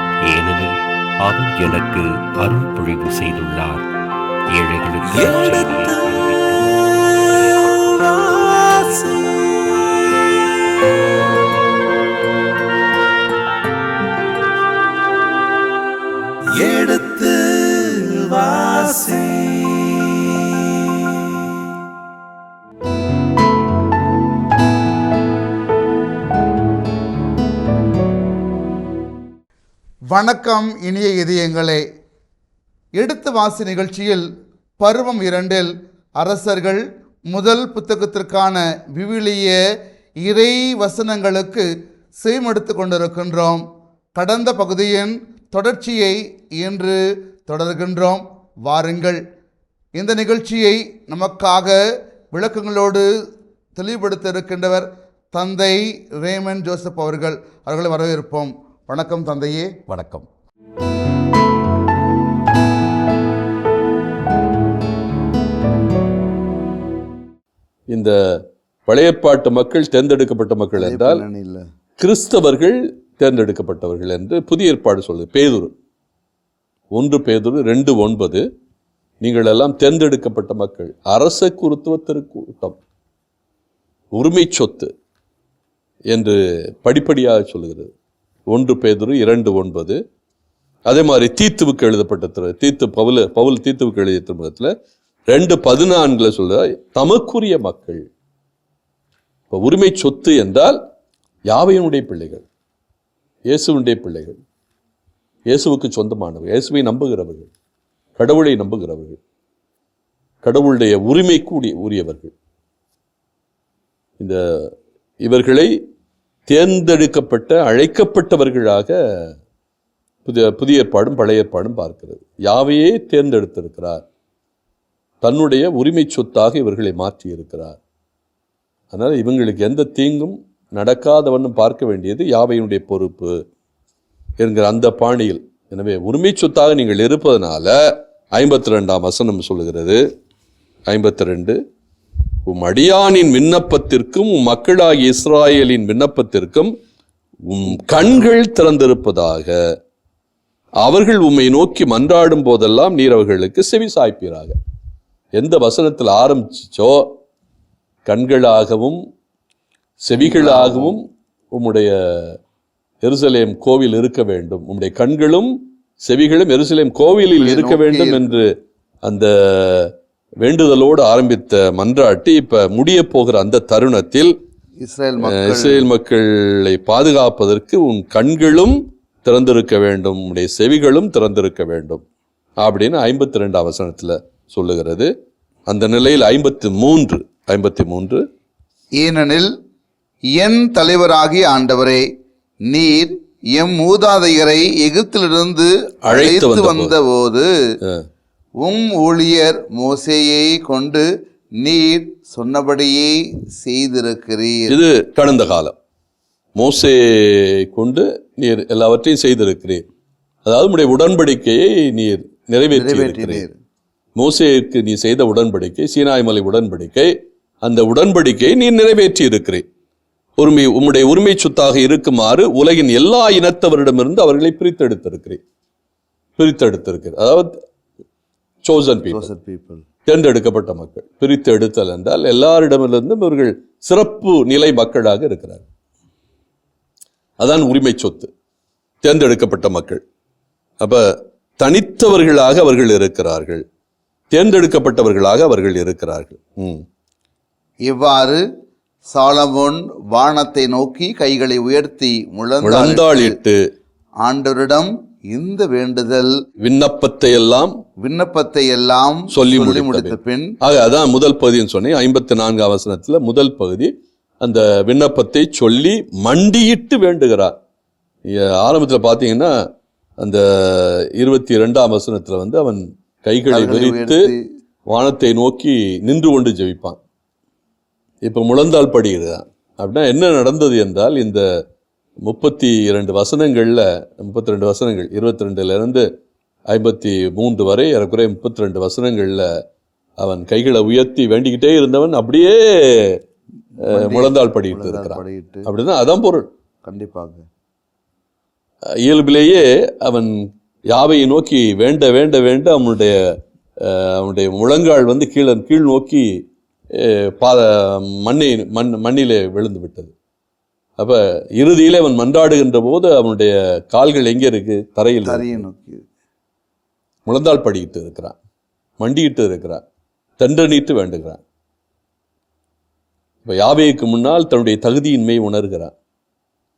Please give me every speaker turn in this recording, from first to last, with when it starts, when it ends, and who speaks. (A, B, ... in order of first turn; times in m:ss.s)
0:00.3-0:03.9 A
0:04.5-0:08.0 A
0:05.2-0:05.7 B
0:07.8-0:09.5 B
0:16.6-0:20.1 B
0:30.1-0:31.8 B
0:33.0-0:34.2 B
0:34.8-0:39.6 B
0:40.2-0:49.2 B
0:50.0-0:51.8 B
0:52.3-0:53.1 B
0:53.8-0:59.9 B
0:59.9-1:00.2 C
1:07.9-1:11.2 C
1:10.8-1:11.6 B
1:12.0-1:15.7 C
1:16.9-1:18.4 C
1:19.2-1:22.8 C
1:24.1-1:24.9 C
1:26.1-1:27.9 C
1:28.5-1:30.0 C
1:30.9-1:34.7 C
1:35.3-1:38.1 C
1:39.5-1:40.8 C
1:41.5-1:42.4 C
1:43.5-1:44.4 C
1:45.5-1:47.5 C
1:48.2-1:49.2 C
1:50.4-1:52.3 C
1:54.2-1:55.7 C
1:56.5-1:58.9 C
2:00.2-2:04.0 C
2:05.2-2:07.8 C
2:08.9-2:13.4 C
2:14.4-2:17.8 C
2:18.3-2:20.0 C
2:20.9-2:21.6 C
2:22.5-2:26.7 C
2:27.5-2:29.6 C
2:30.8-2:34.6 C
2:35.4-2:37.1 C
2:38.0-2:39.0 C
2:40.0-2:42.4 C
2:40.2-2:41.0 B
2:43.0-2:48.5 C
2:47.4-2:48.2 B
2:49.0-2:54.3 C
2:54.8-2:55.9 B
2:55.2-3:02.0 C
3:02.6-3:05.1 C
3:05.7-3:08.2 C
3:09.0-3:09.5 B
3:10.3-3:12.0 B
3:12.7-3:17.5 B
3:16.0-3:16.9 C
3:18.6-3:21.0 B
3:21.6-3:24.8 B
3:24.7-3:25.7 C
3:26.6-3:29.8 C
3:30.4-3:33.4 C
3:32.7-3:33.6 B
3:34.2-3:39.6 C
3:40.4-3:45.4 C
3:46.4-3:47.5 C
3:48.6-3:49.3 C
3:49.1-3:49.8 B
3:50.1-3:55.6 C
3:57.4-3:58.3 C
3:59.0-4:00.0 C
4:00.8-4:03.6 C
4:04.3-4:06.8 C
4:07.8-4:08.4 B
4:09.1-4:13.4 B
4:12.6-4:13.6 C
4:14.2-4:16.3 B
4:16.6-4:17.7 C
4:18.0-4:20.6 B
4:19.3-4:27.6 C
4:28.3-4:29.5 C
4:30.2-4:34.3 C
4:33.5-4:34.4 B
4:34.9-4:37.0 C
4:38.2-4:41.4 C
4:42.2-4:46.0 C
4:46.7-4:49.5 C
4:50.2-4:53.2 C
4:53.8-4:55.7 B
4:53.8-4:56.5 C
4:56.8-4:57.4 B
4:59.0-5:06.4 C
5:06.9-5:10.1 C
5:11.0-5:15.6 C
5:15.2-5:16.0 B
5:17.3-5:18.4 C
5:19.0-5:19.8 C
5:20.4-5:21.4 C
5:23.4-5:25.9 C